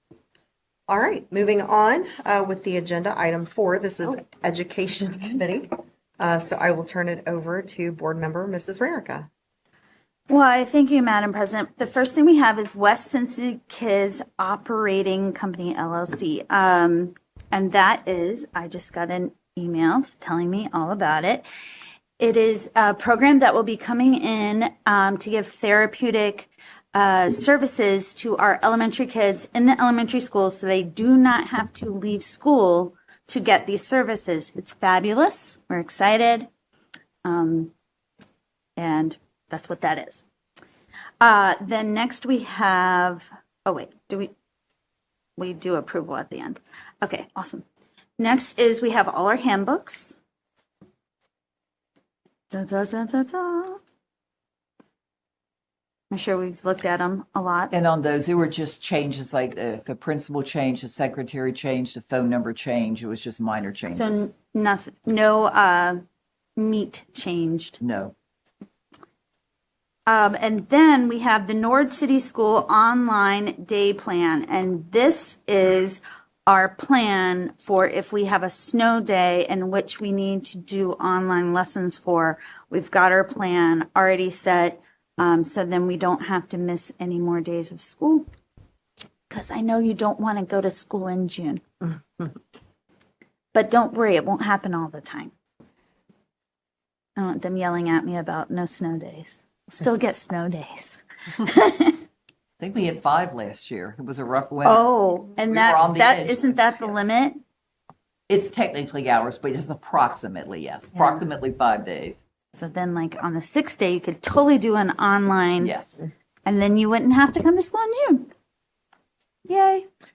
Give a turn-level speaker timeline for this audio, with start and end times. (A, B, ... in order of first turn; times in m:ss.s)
0:00.9-0:09.3 A
0:10.3-0:21.5 B
0:22.2-0:36.5 B
0:37.2-0:37.7 B
0:38.8-0:40.2 B
0:41.2-0:44.3 B
0:45.4-0:47.6 B
0:48.2-0:50.2 B
0:52.5-0:53.8 B
0:56.1-0:57.7 B
0:57.7-1:04.3 C
1:03.9-1:06.0 B
1:06.6-1:07.8 B
1:07.8-1:08.2 C
1:10.1-1:28.3 B
1:29.3-1:31.6 B
1:33.5-1:35.3 B
1:37.2-1:42.0 B
1:42.6-1:44.9 C
1:44.6-1:47.4 B
1:45.5-1:47.1 C
1:48.3-1:52.2 C
1:50.9-1:51.2 B
1:52.5-1:55.8 B
1:55.6-1:56.0 C
1:56.4-1:58.3 B
1:59.5-1:59.9 B